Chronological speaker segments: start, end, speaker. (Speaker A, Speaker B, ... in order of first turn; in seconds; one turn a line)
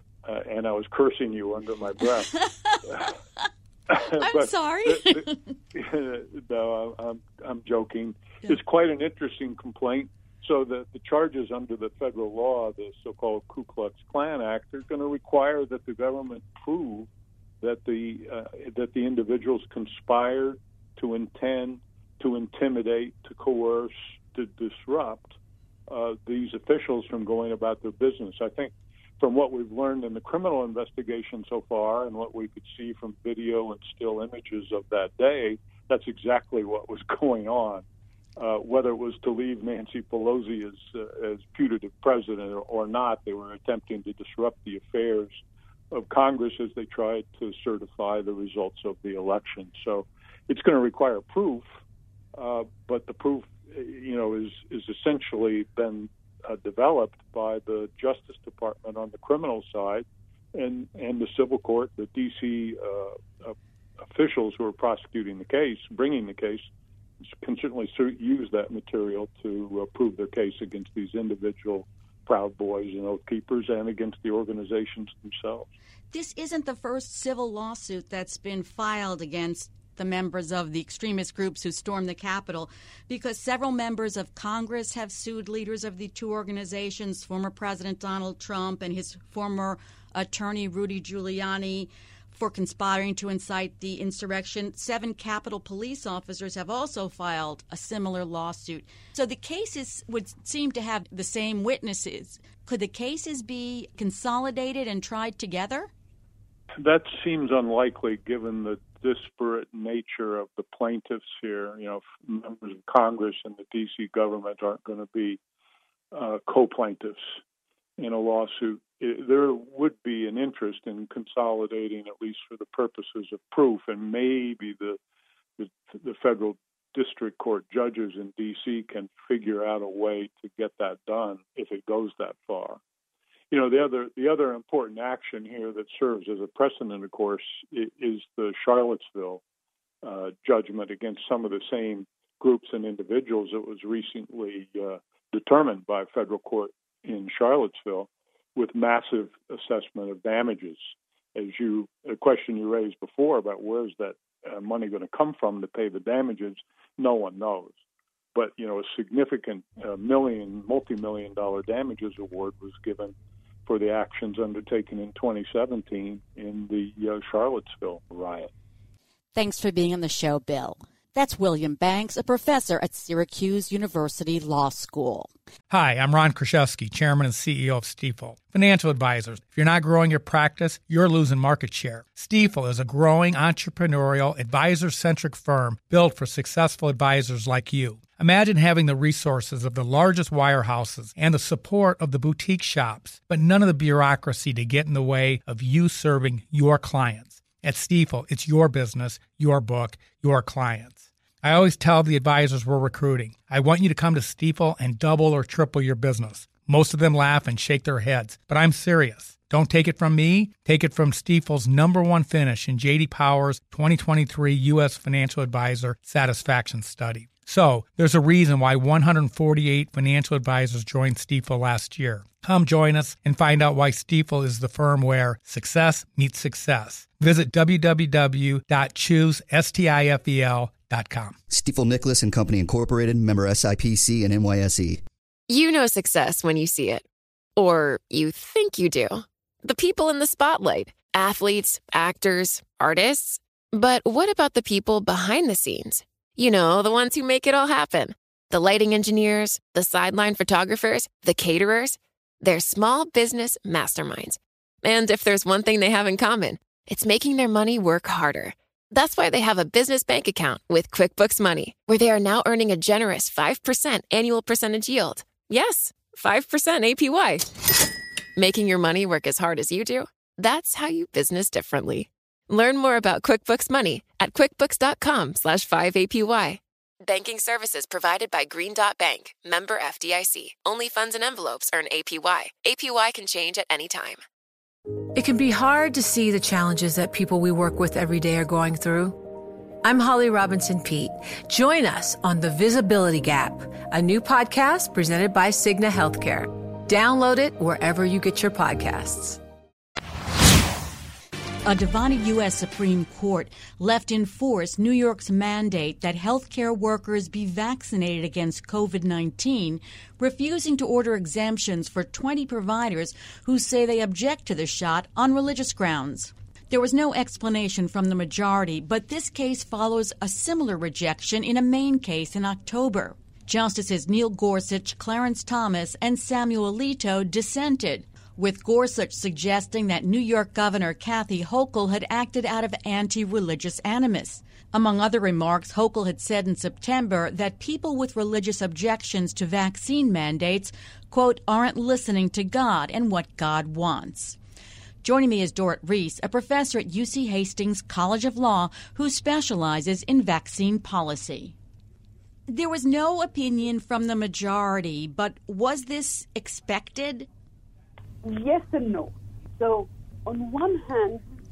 Speaker A: 0.2-2.3
Speaker B: 2.0-3.1
Speaker A: 3.9-17.1
Speaker B: 4.2-5.4
Speaker A: 17.6-25.4
Speaker A: 25.9-37.9
Speaker A: 38.4-51.7
Speaker A: 52.4-63.5
Speaker A: 64.1-66.7
Speaker A: 67.3-75.7
Speaker B: 76.1-105.9
Speaker A: 106.8-115.4
Speaker A: 116.1-117.4
Speaker A: 118.0-125.0
Speaker A: 125.6-132.8
Speaker A: 133.5-139.4
Speaker A: 140.0-157.8
Speaker A: 158.3-163.1
Speaker A: 163.7-168.5
Speaker B: 169.3-175.3
Speaker C: 175.7-231.4
Speaker D: 231.5-235.0
Speaker E: 235.5-237.1
Speaker E: 237.6-267.5
Speaker E: 268.4-284.2
Speaker F: 285.1-289.2
Speaker F: 289.8-299.4
Speaker B: 301.7-344.4
Speaker B: 345.0-351.6
Speaker B: 352.5-357.3
Speaker G: 358.2-361.2